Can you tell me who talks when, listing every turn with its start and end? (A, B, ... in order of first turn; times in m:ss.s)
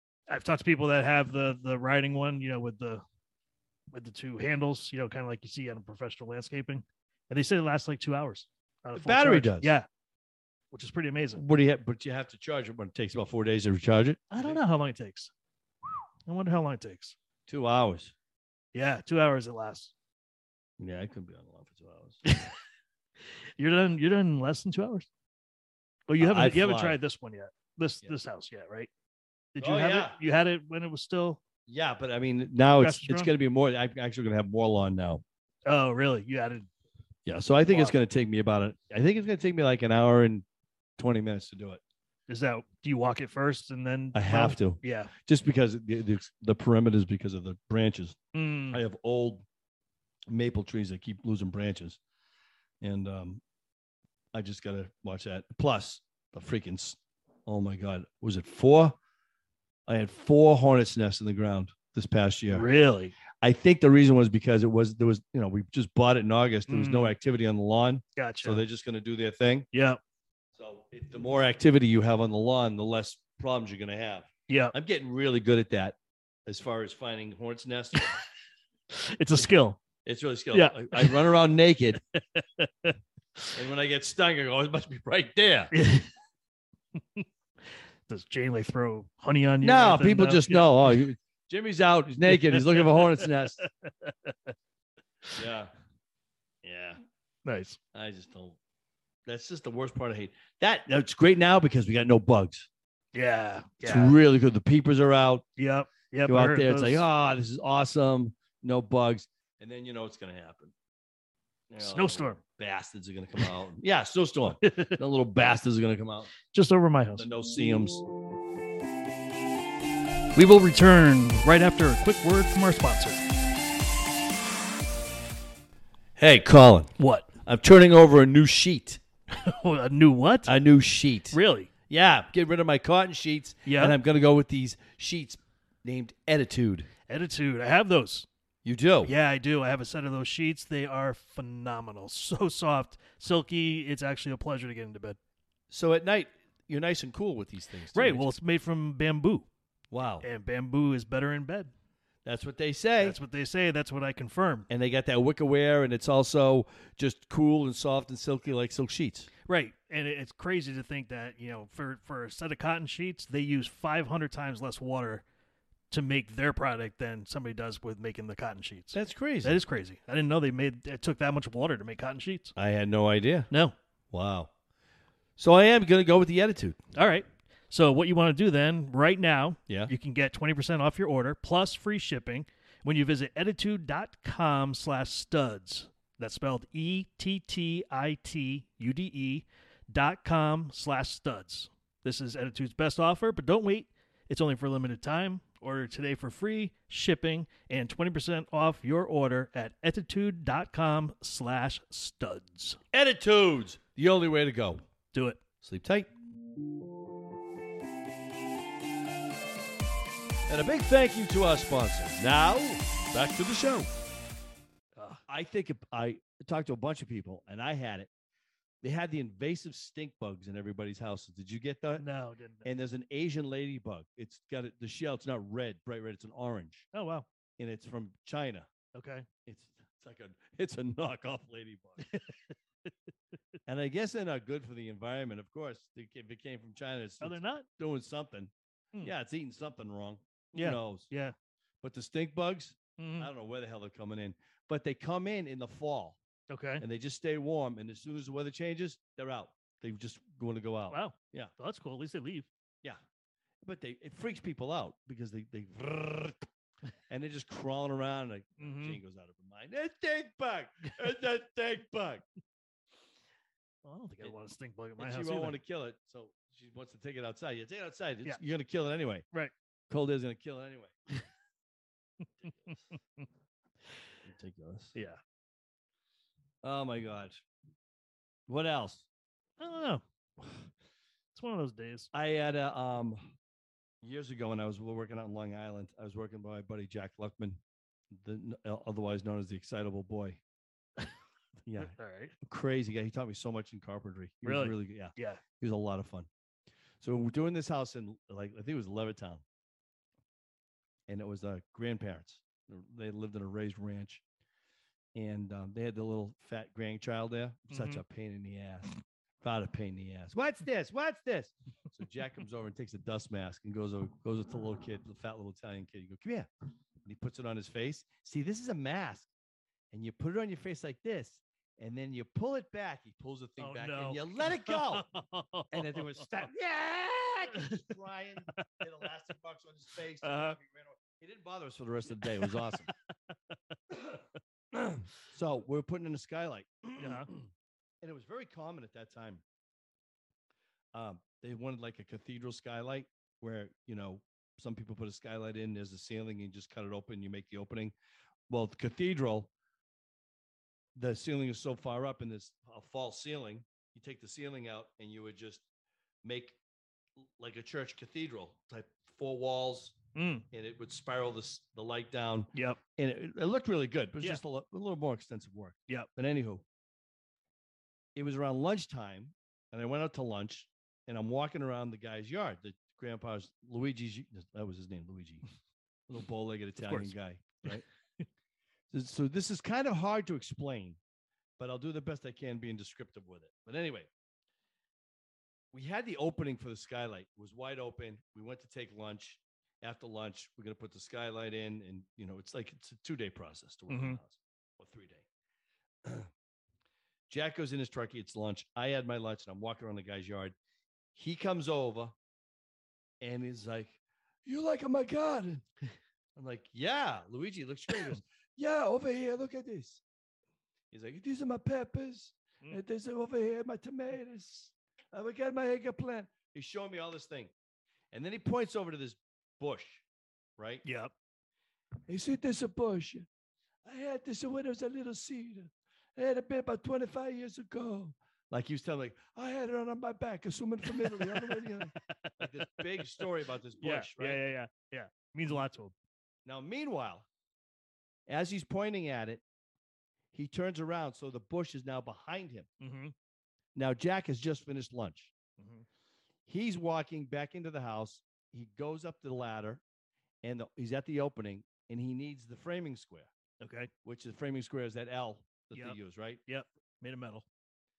0:00.3-0:03.0 A
0:03.9-0:09.8 A
0:08.9-0:09.7 B
0:10.7-0:11.4 A
0:11.3-0:14.6 B
0:14.3-0:15.3 A
0:16.2-0:17.1 A
0:17.5-0:18.1 B
0:18.7-0:19.9 A
0:20.8-0:22.2 B
0:22.2-0:22.5 A
0:23.2-0:25.1 A
0:26.1-0:28.9 A
0:26.2-0:27.0 B
0:29.5-0:31.4 A
0:29.6-0:30.2 B
0:31.7-0:35.2 B
0:32.8-0:33.3 A
0:35.6-0:36.7 A
0:37.2-0:40.4 B
0:37.7-0:38.0 A
0:41.0-0:41.8 B
0:42.3-0:45.1 A
0:44.1-0:49.4 B
0:48.3-0:48.8 A
0:50.3-0:52.0 B
0:52.8-0:53.4 B
0:54.3-0:59.0 B
0:59.9-1:02.6 B
1:02.5-1:03.1 A
1:03.4-1:09.7 B
1:06.7-1:07.2 A
1:08.2-1:08.6 A
1:09.7-1:10.0 A
1:10.6-1:16.0 B
1:14.5-1:14.7 A
1:16.5-1:18.2 B
1:18.9-1:19.8 A
1:20.0-1:22.0 B
1:20.5-1:21.2 A
1:22.1-1:23.5 A
1:23.5-1:25.7 B
1:25.7-1:26.1 A
1:27.0-1:27.2 A
1:28.1-1:31.0 A
1:29.6-1:33.6 B
1:32.3-1:34.5 A
1:35.3-1:35.7 B
1:36.6-1:37.0 B
1:37.4-1:37.8 A
1:37.9-1:38.6 B
1:39.3-1:42.7 B
1:43.1-1:44.2 A
1:43.8-1:45.4 B
1:45.6-1:47.0 A
1:46.3-1:50.7 B
1:51.7-1:56.3 B
1:51.8-1:52.4 A
1:54.6-1:55.0 A
1:56.5-1:57.3 A
1:57.2-1:58.0 B
2:00.3-2:03.2 A
2:06.2-2:06.9 B
2:07.0-2:07.3 A
2:07.4-2:09.0 B
2:09.3-2:10.5 A
2:10.4-2:16.9 B
2:11.3-2:11.7 A
2:13.6-2:14.0 A
2:17.1-2:18.3 A
2:18.6-2:19.1 B
2:19.0-2:25.2 A
2:25.7-2:28.3 B
2:27.9-2:29.5 A
2:29.9-2:30.2 B
2:30.2-2:31.7 A
2:32.2-2:33.2 B
2:33.0-2:34.7 A
2:34.7-2:39.3 B
2:39.4-2:45.2 A
2:45.9-2:52.5 A
2:48.9-2:49.5 B
2:52.6-2:53.5 B
2:53.5-2:53.7 A
2:54.1-2:54.5 B
2:55.4-2:56.8 B
2:56.9-3:22.8 A
3:22.9-3:24.8 B
3:25.1-3:25.4 A
3:25.6-3:26.1 B
3:30.5-3:33.9 B
3:35.0-3:35.2 A
3:35.3-3:38.1 B
3:38.8-3:42.0 B
3:42.0-3:42.6 A
3:42.6-3:46.9 B
3:46.9-3:47.3 A
3:47.6-3:48.7 B
3:48.9-3:49.3 A
3:49.4-3:52.0 B
3:52.0-3:52.5 A
3:53.6-4:01.1 B
3:57.2-3:57.6 A
4:00.5-4:01.3 A
4:01.8-4:06.2 B
4:03.0-4:03.3 A
4:06.5-4:06.8 A
4:06.8-4:11.5 B
4:10.9-4:12.5 A
4:13.6-4:16.4 B
4:17.1-4:22.2 B
4:18.6-4:19.0 A
4:23.8-4:25.6 A
4:25.0-4:29.2 B
4:29.9-4:31.0 B
4:32.4-4:32.8 B
4:34.2-4:35.0 B
4:36.6-4:37.4 B
4:38.5-4:39.0 B
4:39.6-4:40.0 A
4:41.3-4:42.1 A
4:42.1-4:43.3 B
4:44.0-4:47.6 B
4:48.1-4:50.4 B
4:51.6-4:56.3 B
4:51.8-4:52.3 A
4:54.4-4:55.4 A
4:57.0-4:59.4 B
5:01.1-5:04.2 B
5:05.1-5:16.5 B
5:07.7-5:08.0 A
5:17.0-5:19.3 B
5:19.9-5:25.1 B
5:23.6-5:26.4 A
5:25.7-5:32.9 B
5:27.5-5:27.9 A
5:30.2-5:30.6 A
5:32.2-5:33.8 A
5:34.7-5:37.5 B
5:37.0-5:37.3 A
5:38.0-5:39.4 B
5:40.9-5:47.9 B
5:48.5-5:49.5 B
5:51.0-5:55.6 B
5:56.2-5:56.6 B
5:57.2-6:00.0 B
6:00.1-6:00.4 A
6:00.5-6:06.6 B
6:02.5-6:02.8 A
6:08.2-6:15.4 B
6:16.1-6:17.8 B
6:16.8-6:18.2 A
6:18.9-6:21.0 B
6:21.6-6:24.1 B
6:25.7-6:35.2 B
6:33.9-6:34.2 A
6:36.0-6:36.3 B
6:37.3-6:40.5 B
6:41.1-6:42.1 B
6:43.2-6:45.6 B
6:46.4-6:50.0 B
6:50.9-6:57.5 B
6:58.1-7:00.0 B
7:00.6-7:00.8 B
7:00.8-7:01.1 A
7:02.1-7:03.2 B
7:03.8-7:14.4 B
7:10.9-7:13.2 A
7:13.8-7:15.9 A
7:16.4-7:17.2 B
7:18.3-7:19.4 B
7:20.3-7:22.7 B
7:22.8-7:23.1 A
7:23.8-7:25.3 B
7:25.6-7:25.8 A
7:26.5-7:29.8 B
7:30.4-7:33.3 B
7:33.6-7:33.9 A
7:34.0-7:36.4 B
7:35.7-7:37.4 A